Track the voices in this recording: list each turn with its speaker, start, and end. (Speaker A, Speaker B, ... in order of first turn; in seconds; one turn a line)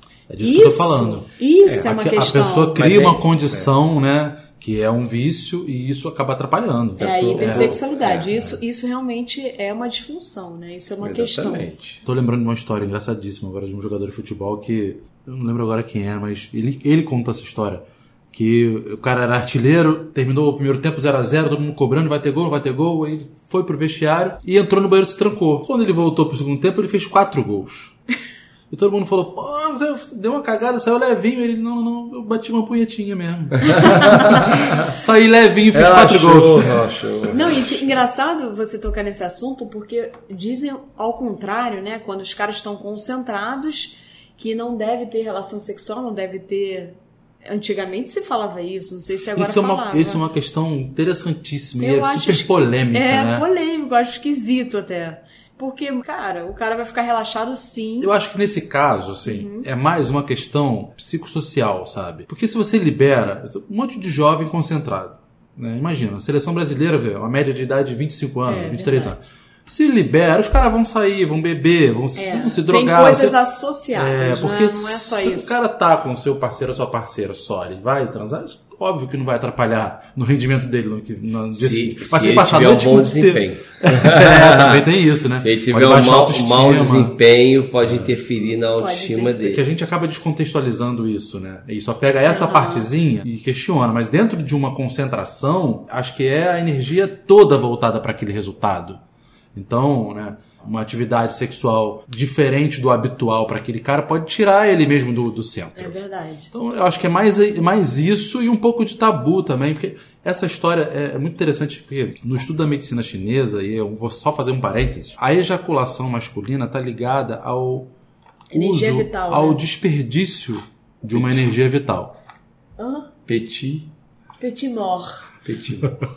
Speaker A: 0.3-7.8
Speaker B: 0.4-2.8
Speaker C: 2.8-3.7
Speaker C: 7.0-8.3
Speaker B: 7.0-11.8
Speaker C: 11.0-12.0
Speaker A: 12.1-28.0
Speaker A: 28.7-36.8
Speaker C: 35.7-38.0
Speaker B: 37.3-47.0
Speaker B: 47.5-50.2
Speaker A: 49.4-53.5
Speaker B: 51.8-58.1
Speaker A: 58.0-73.4
Speaker B: 59.2-59.7
Speaker B: 68.5-69.2
Speaker B: 72.2-75.6
Speaker A: 73.9-87.2
Speaker C: 81.6-89.6
Speaker A: 87.8-88.1
Speaker B: 88.7-89.4
Speaker A: 89.4-99.0
Speaker B: 92.3-92.9
Speaker A: 99.5-106.0
Speaker B: 105.8-106.5
Speaker A: 106.5-117.9
Speaker B: 118.5-119.6
Speaker A: 118.5-122.2
Speaker C: 121.1-121.4
Speaker B: 122.8-123.1
Speaker C: 123.3-123.9
Speaker B: 124.4-125.3
Speaker C: 125.4-125.9